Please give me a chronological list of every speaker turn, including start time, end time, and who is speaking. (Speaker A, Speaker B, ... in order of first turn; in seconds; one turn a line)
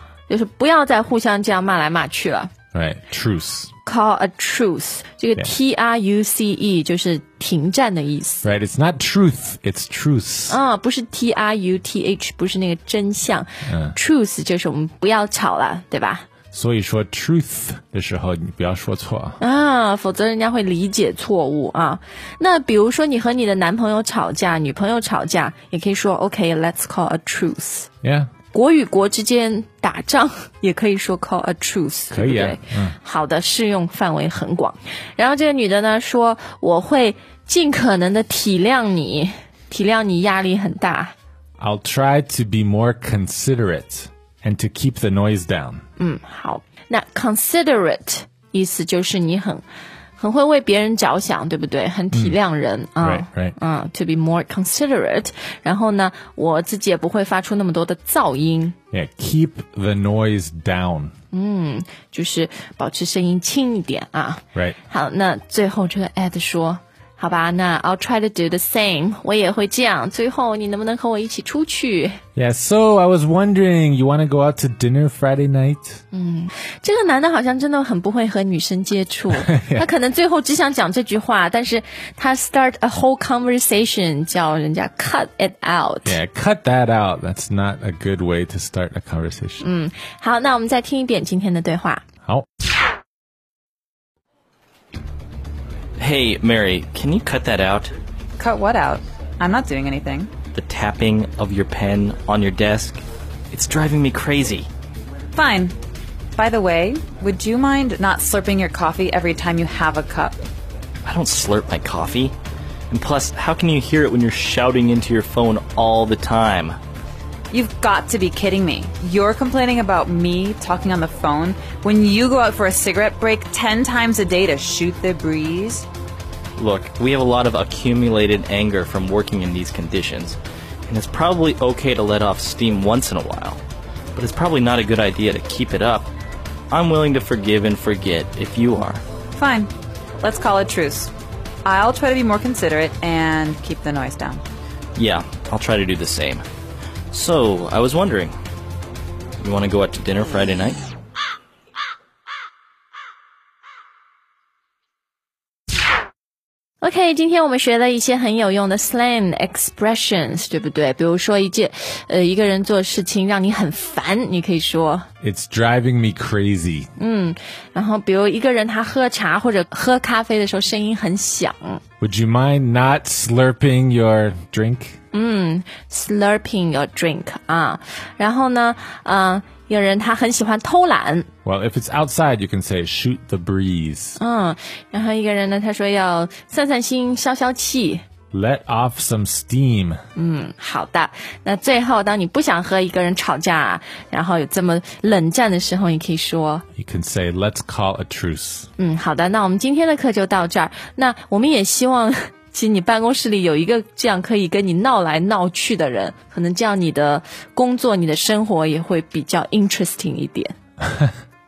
Speaker A: 0.3-2.5
Speaker B: 2.7-3.7
Speaker A: 3.8-8.5
Speaker B: 8.4-10.6
Speaker A: 10.5-16.2
Speaker B: 13.7-14.0
Speaker B: 16.5-19.4
Speaker A: 19.4-27.9
Speaker B: 28.0-28.3
Speaker A: 28.5-41.1
Speaker B: 32.1-33.0
Speaker B: 41.6-45.8
Speaker A: 46.0-49.6
Speaker A: 50.2-58.8
Speaker B: 52.1-52.4
Speaker B: 53.0-53.5
Speaker B: 58.9-61.1
Speaker A: 61.3-72.2
Speaker B: 72.3-76.0
Speaker A: 76.1-86.2
Speaker B: 79.3-79.8
Speaker B: 86.0-89.6
Speaker A: 89.6-92.0
Speaker C: 96.0-97.9
Speaker D: 98.4-100.3
Speaker C: 100.5-104.7
Speaker D: 105.3-105.7
Speaker D: 106.3-110.4
Speaker C: 111.0-112.3
Speaker C: 112.9-116.8
Speaker D: 117.5-125.8
Speaker C: 126.6-133.6
Speaker C: 134.2-136.1
Speaker C: 136.7-139.0
Speaker D: 139.3-141.1
Speaker D: 141.6-144.4
Speaker C: 144.9-146.4
Speaker C: 147.1-148.3
Speaker C: 149.4-150.8
Speaker A: 156.8-165.1
Speaker B: 165.2-166.9
Speaker A: 167.0-171.8
Speaker B: 172.0-175.0
Speaker A: 175.1-181.3
Speaker B: 181.4-184.2
Speaker A: 184.2-188.0
Speaker B: 188.3-190.0
Speaker A: 190.2-196.7
Speaker B: 196.8-198.7
Speaker A: 198.8-210.5
Speaker B: 210.8-211.1